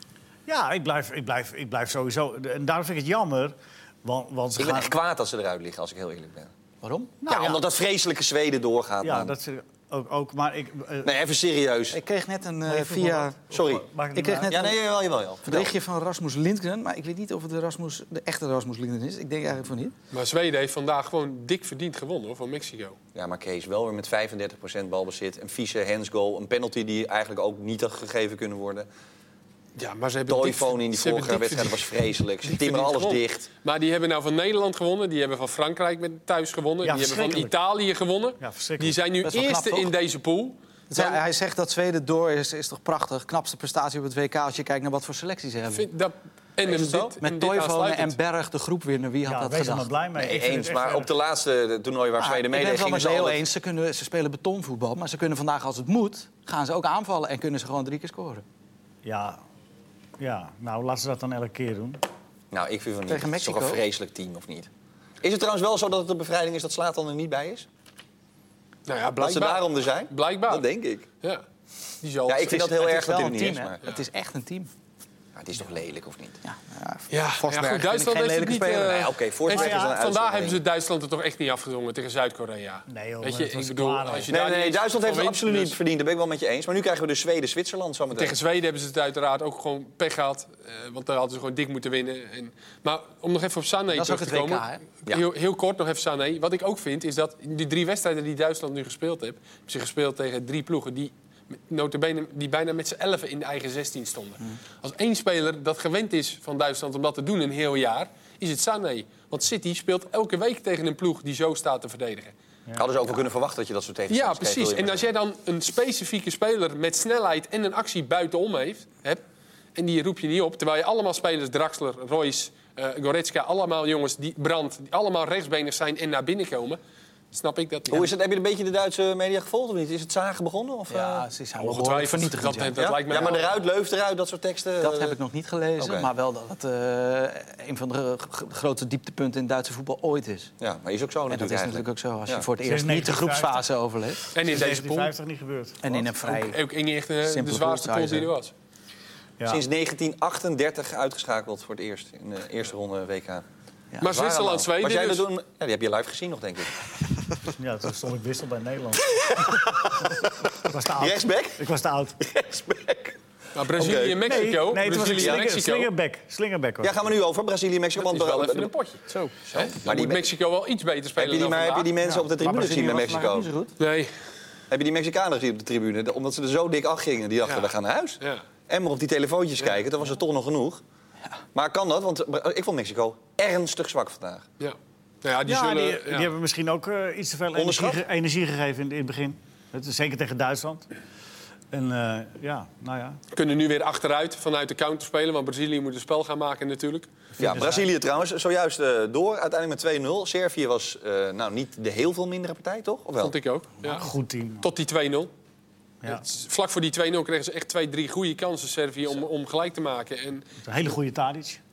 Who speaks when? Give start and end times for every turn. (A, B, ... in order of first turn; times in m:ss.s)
0:00.5-0:05.0 A
0:04.6-0:06.5 B
0:06.8-0:07.3 C
0:07.2-0:07.6 A
0:07.3-0:09.3 B
0:09.0-0:11.2 A
0:11.0-0:12.0 B
0:11.9-0:13.4 C
0:12.7-0:14.7 A
0:13.5-0:13.9 B
0:14.1-0:14.8 C
0:14.5-0:15.7 B
0:15.4-0:19.9 C
0:20.1-0:23.0 D
0:23.2-0:28.9 B
0:29.8-0:31.9 D
0:30.3-0:33.5 B
0:32.4-0:41.2 D
0:36.8-0:37.5 A
0:38.4-0:39.0 A
0:39.2-0:39.9 C
0:40.9-0:45.9 C
0:45.7-0:48.2 D
0:46.7-0:50.4 C
0:49.3-0:51.1 A
0:50.2-0:53.4 B
0:52.2-0:58.4 C
0:59.0-0:59.4 A
1:00.2-1:02.0 A
1:02.5-1:04.7 B
1:03.1-1:03.8 C
1:05.2-1:07.7 B
1:08.9-1:10.7 D
1:09.2-1:11.0 B
1:12.0-1:12.7 D
1:12.3-1:13.8 B
1:12.5-1:14.7 C
1:15.4-1:16.4 B
1:16.4-1:19.0 C
1:17.1-1:25.8 D
1:18.8-1:20.6 B
1:19.5-1:20.0 A
1:22.9-1:24.4 A
1:24.3-1:28.4 B
1:28.1-1:41.1 D
1:33.9-1:34.8 C
1:41.7-1:52.3 D
1:52.8-1:55.1 B
1:54.1-1:59.2 D
1:59.8-2:06.8 D
2:07.3-2:08.1 D
2:07.9-2:11.3 B
2:10.9-2:12.8 C
2:11.6-2:13.6 D
2:12.8-2:15.2 B
2:14.8-2:20.5 C
2:15.8-2:16.1 B
2:20.6-2:22.5 B
2:21.3-2:24.2 C
2:22.6-2:23.7 A
2:24.3-2:26.0 A
2:24.3-2:25.1 D
2:25.8-2:26.6 C
2:26.2-2:28.5 D
2:27.2-2:28.3 C
2:29.5-2:33.4 B
2:34.0-2:35.3 D
2:34.0-2:36.8 B
2:37.6-2:42.2 A
2:39.2-2:40.2 B
2:40.9-2:41.6 B
2:42.2-2:43.2 B
2:43.6-2:45.9 D
2:43.7-2:44.4 B
2:44.2-2:47.1 A
2:45.1-2:45.5 B
2:46.8-2:48.7 B
2:48.0-2:51.9 D
2:49.5-2:50.3 B
2:51.2-2:53.5 B
2:52.0-2:53.7 C
2:53.8-2:54.1 D
2:54.7-3:00.8 B
2:57.4-2:58.4 D
3:01.6-3:04.4 B
3:04.6-3:06.3 D
3:05.4-3:10.9 A
3:07.6-3:08.0 B
3:11.7-3:13.2 A
3:13.3-3:17.1 D
3:17.4-3:17.9 A
3:17.4-3:23.4 B
3:23.2-3:24.1 D
3:23.8-3:24.7 A
3:24.6-3:25.3 D
3:26.1-3:30.5 D
3:30.6-3:31.6 A